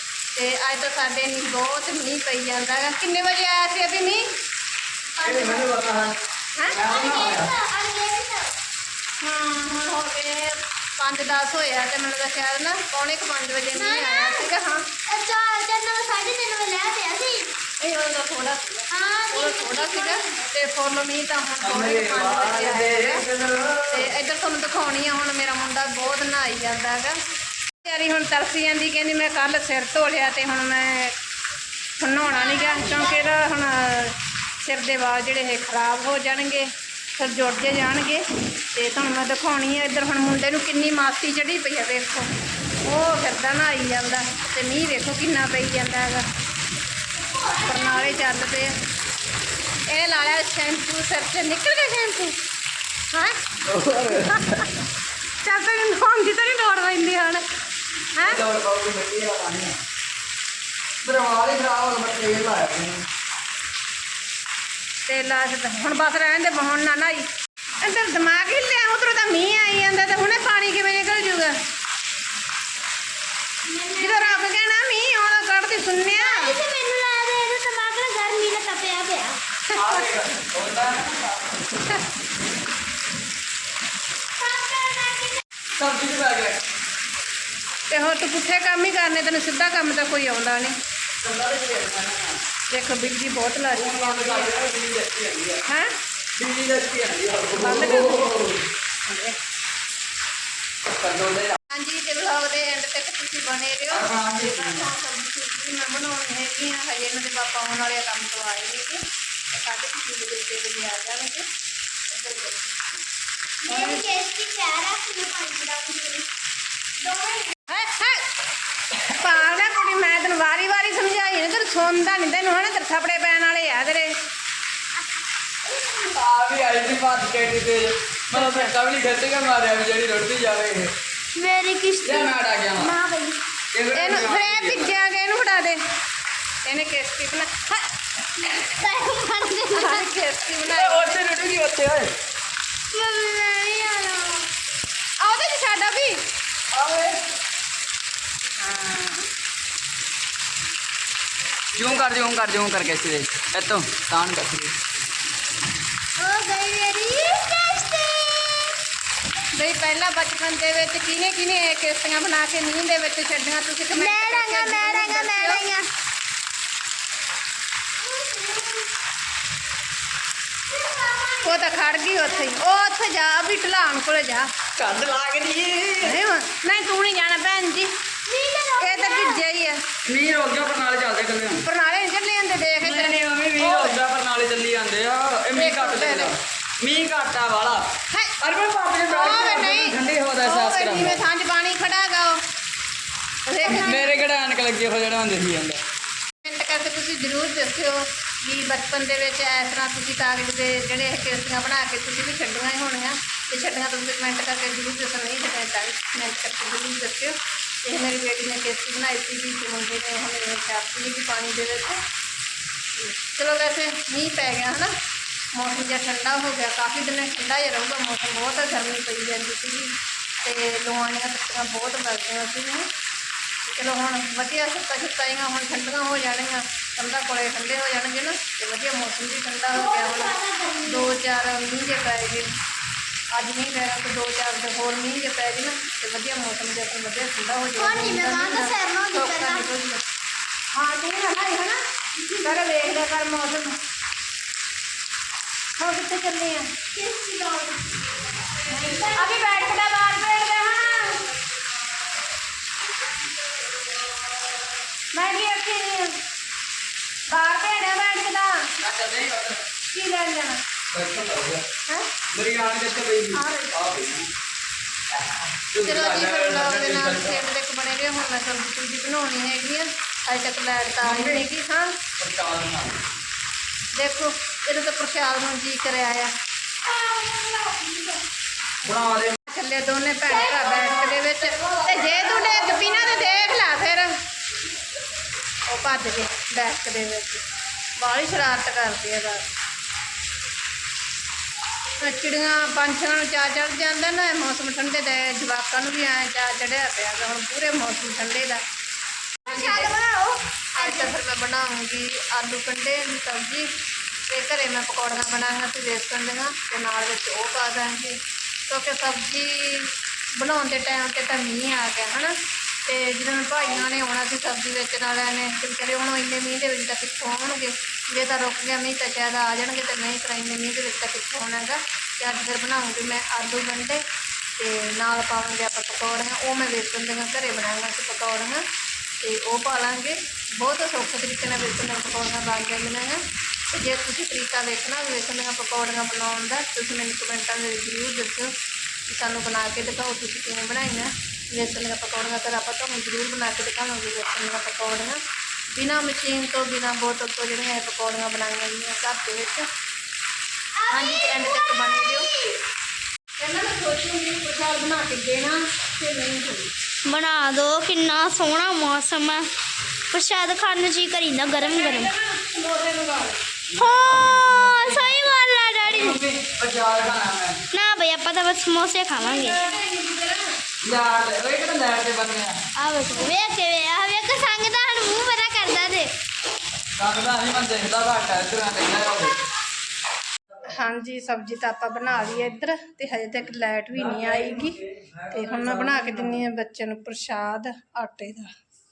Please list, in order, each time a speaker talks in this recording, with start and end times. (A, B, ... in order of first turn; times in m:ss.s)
0:00.3-0:04.2 A
0:05.2-0:05.7 B
0:05.2-0:06.2 C
0:06.6-0:06.8 A
0:06.7-0:07.5 C
0:06.7-0:08.5 B
0:09.2-0:14.9 A
0:13.7-0:14.5 B
0:15.0-0:17.5 B
0:17.8-0:23.2 A
0:18.9-0:20.4 B
0:21.6-0:24.1 C
0:23.9-0:27.2 A
0:27.8-0:31.1 A
0:32.0-0:42.3 A
0:32.2-0:33.3 B
0:42.8-0:46.2 A
0:47.2-0:48.2 B
0:47.6-0:48.7 A
0:49.9-0:52.4 A
0:53.6-0:54.6 C
0:54.1-0:54.6 A
0:55.4-0:57.4 A
0:58.2-0:58.4 A
0:58.2-0:59.8 C
1:01.0-1:03.0 C
1:05.1-1:07.2 A
1:07.8-1:11.6 A
1:13.6-1:14.4 B
1:14.0-1:16.6 A
1:16.1-1:19.4 B
1:19.7-1:20.0 A
1:19.7-1:21.6 C
1:24.4-1:25.4 B
1:25.8-1:26.6 C
1:27.9-1:30.8 A
1:31.2-1:32.4 C
1:32.7-1:34.6 A
1:33.7-1:35.6 C
1:35.6-1:35.9 A
1:36.4-1:38.6 C
1:37.5-1:38.5 A
1:39.1-1:39.4 A
1:40.9-1:41.6 C
1:41.7-1:51.4 A
1:43.9-1:44.9 C
1:52.1-1:52.8 A
1:53.6-1:56.3 B
1:53.7-1:54.0 A
1:57.0-1:57.4 B
1:57.7-1:58.2 A
1:59.1-2:04.1 A
2:05.8-2:10.9 C
2:08.3-2:08.7 A
2:11.3-2:13.4 B
2:12.0-2:12.9 C
2:13.7-2:14.9 C
2:13.9-2:15.8 A
2:16.6-2:17.8 A
2:18.4-2:20.1 B
2:19.7-2:21.5 A
2:20.7-2:22.1 C
2:22.9-2:24.5 B
2:25.2-2:26.2 A
2:26.7-2:27.2 C
2:28.6-2:29.3 A
2:31.7-2:34.7 C
2:36.2-2:38.8 B
2:39.5-2:45.7 A
2:43.9-2:45.9 B
2:48.0-2:48.9 B
2:50.7-2:52.5 B
2:51.4-2:54.5 A
2:54.8-2:56.2 C
2:56.0-2:57.9 A
2:58.2-2:59.4 B
2:58.8-2:59.8 A
3:00.0-3:01.6 C
3:01.5-3:04.0 A
3:02.8-3:07.9 C
3:05.5-3:06.3 A
3:08.1-3:08.4 A
3:08.4-3:11.2 C
3:09.1-3:12.4 A
3:13.5-3:14.1 A
3:13.6-3:14.1 B
3:13.6-3:15.8 C
3:16.4-3:32.0 A
3:33.0-3:34.9 A
3:35.5-3:42.9 A
3:43.6-3:52.5 A
3:49.7-3:51.2 B
3:53.3-4:00.0 A
3:57.8-3:59.6 B
4:00.7-4:03.8 A
4:05.8-4:06.7 A
4:06.9-4:09.8 B
4:08.7-4:11.2 A
4:15.1-4:16.2 A
4:17.3-4:18.7 A
4:18.8-4:19.6 C
4:19.9-4:20.6 A
4:20.9-4:21.6 C
4:22.3-4:24.3 C
4:23.3-4:23.7 A
4:25.7-4:27.4 C
4:25.8-4:31.9 A
4:31.0-4:31.5 C
4:32.2-4:33.0 C
4:33.9-4:36.3 A
4:36.9-4:38.1 B
4:38.8-4:39.4 C
4:39.5-4:44.1 A
4:40.3-4:43.2 B
4:45.7-4:47.4 A
4:48.0-4:49.4 A
4:52.0-4:58.6 A
4:59.4-5:01.1 B
4:59.4-4:59.9 A
5:00.8-5:03.7 A
5:04.3-5:24.0 A
5:24.6-5:28.6 A
5:29.2-5:33.2 A
5:33.7-5:38.5 A
5:39.1-5:45.2 A
5:45.7-5:49.7 A
5:50.8-5:52.6 B
5:50.9-5:52.3 A
5:53.4-5:56.7 A
5:57.0-5:59.5 B
6:00.1-6:02.1 B
6:01.5-6:03.4 A
6:03.7-6:07.6 C
6:03.8-6:06.2 B
6:07.7-6:09.6 B
6:09.1-6:10.6 A
6:10.8-6:12.6 C
6:12.8-6:16.1 B
6:17.0-6:19.4 C
6:20.7-6:24.8 A
6:23.9-6:26.4 C
6:25.3-6:28.5 A